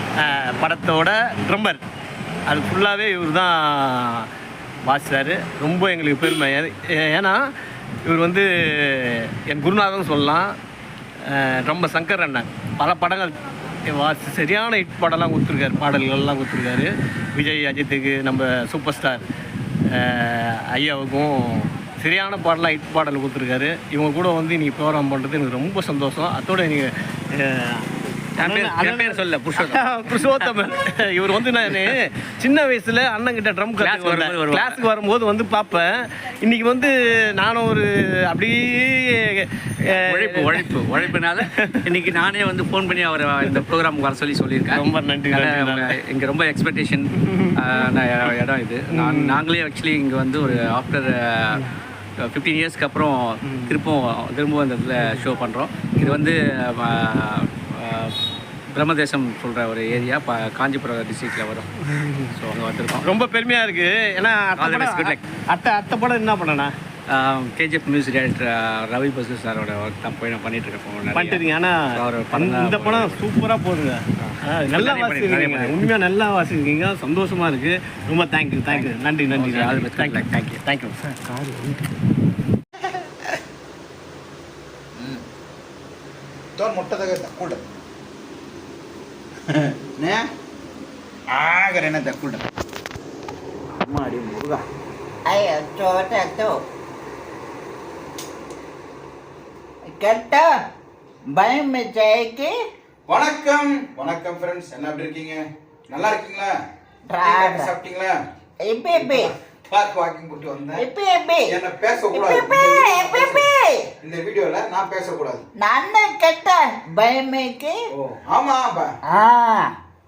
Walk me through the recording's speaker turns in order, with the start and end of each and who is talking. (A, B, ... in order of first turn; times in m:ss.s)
0:00.2-0:01.8 A
0:02.5-0:04.3 A
0:04.9-0:07.4 A
0:08.1-0:10.5 A
0:11.3-0:13.4 A
0:13.9-0:19.3 A
0:19.9-0:27.9 A
0:28.4-0:30.5 B
0:28.4-0:39.5 A
0:31.5-0:31.9 B
0:33.8-0:34.8 B
0:39.8-0:51.6 B
0:40.1-0:41.8 A
0:44.7-0:46.0 A
0:47.2-0:47.9 A
0:48.9-0:49.4 A
0:52.2-0:58.2 B
0:53.5-0:53.8 A
0:58.7-1:01.8 B
1:01.9-1:02.3 A
1:02.3-1:03.1 B
1:03.0-1:06.7 A
1:04.6-1:05.2 B
1:07.1-1:13.3 B
1:11.1-1:21.0 A
1:14.2-1:15.9 B
1:18.7-1:20.6 B
1:26.6-1:27.6 C
1:29.5-1:30.3 C
1:31.3-1:32.4 C
1:33.8-1:34.6 C
1:35.3-1:36.6 D
1:39.9-1:40.5 D
1:41.4-1:42.5 D
1:43.1-1:46.5 C
1:47.1-1:47.7 D
1:47.2-1:48.2 C
1:48.7-1:49.3 D
1:48.9-1:50.8 C
1:50.8-1:51.5 D
1:51.5-1:53.5 C
1:52.1-1:53.8 D
1:54.0-1:55.4 C
1:55.6-1:57.8 D
1:57.9-1:59.0 C
1:59.1-1:59.7 D